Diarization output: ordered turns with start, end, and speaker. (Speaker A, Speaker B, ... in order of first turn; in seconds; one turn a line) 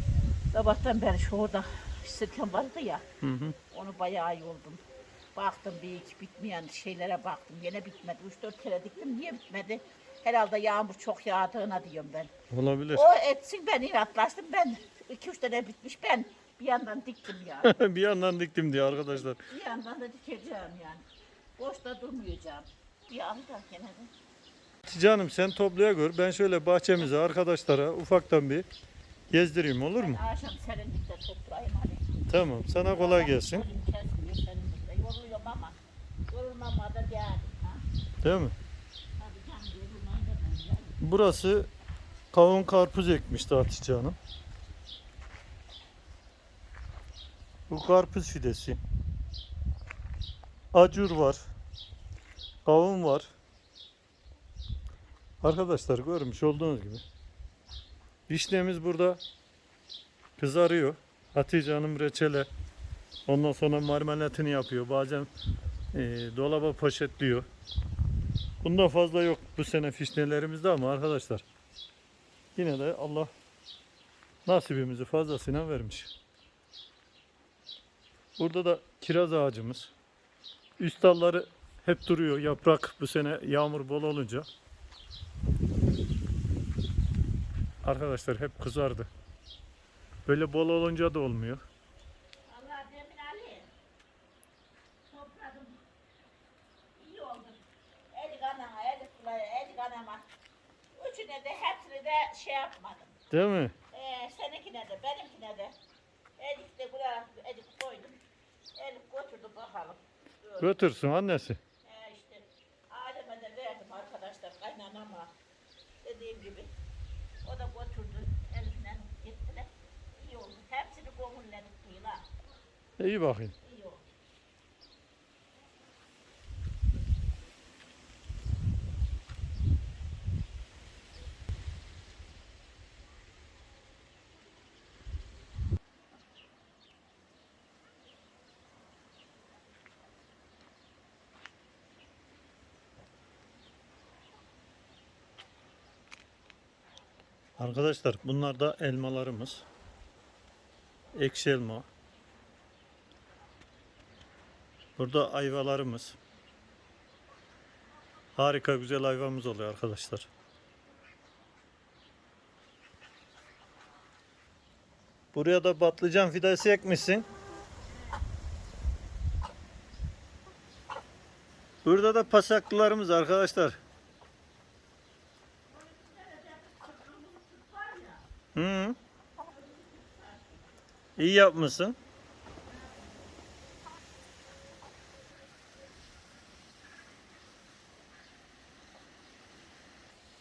Speaker A: 0.5-3.0
Speaker B: 3.2-3.6
Speaker A: 3.6-4.8
Speaker A: 5.3-12.3
Speaker B: 12.5-13.1
Speaker A: 12.9-17.8
Speaker B: 17.6-19.4
Speaker A: 19.1-21.1
Speaker A: 21.6-24.1
Speaker B: 24.8-28.7
Speaker B: 29.3-30.2
Speaker A: 30.0-32.1
Speaker B: 32.3-33.7
Speaker A: 32.8-35.8
Speaker A: 36.3-37.9
Speaker B: 38.2-38.5
Speaker A: 39.2-41.0
Speaker B: 41.0-41.7
Speaker B: 42.3-44.2
Speaker B: 47.7-48.8
Speaker B: 50.7-51.4
Speaker B: 52.6-53.3
Speaker B: 55.4-57.0
Speaker B: 58.3-59.2
Speaker B: 60.4-62.5
Speaker B: 63.3-65.3
Speaker B: 65.9-67.5
Speaker B: 68.6-71.5
Speaker B: 72.5-73.3
Speaker B: 74.5-76.1
Speaker B: 78.4-79.9
Speaker B: 80.8-84.5
Speaker B: 87.8-89.1
Speaker B: 90.3-91.6
Speaker A: 92.5-93.7
Speaker A: 95.1-95.8
Speaker A: 97.0-100.3
Speaker A: 101.0-103.2
Speaker B: 103.3-103.8
Speaker A: 103.9-105.8
Speaker A: 106.4-108.2
Speaker A: 108.8-110.8
Speaker B: 110.6-111.6
Speaker A: 111.8-115.3
Speaker A: 116.0-116.7
Speaker A: 117.4-122.3
Speaker B: 123.0-123.5
Speaker A: 123.6-124.0
Speaker B: 147.6-149.7
Speaker B: 151.1-151.9
Speaker B: 155.0-156.2
Speaker B: 158.3-160.3
Speaker B: 165.3-167.3
Speaker B: 171.8-173.8
Speaker A: 175.7-178.3
Speaker B: 178.6-179.0
Speaker A: 179.4-180.7
Speaker B: 181.2-182.0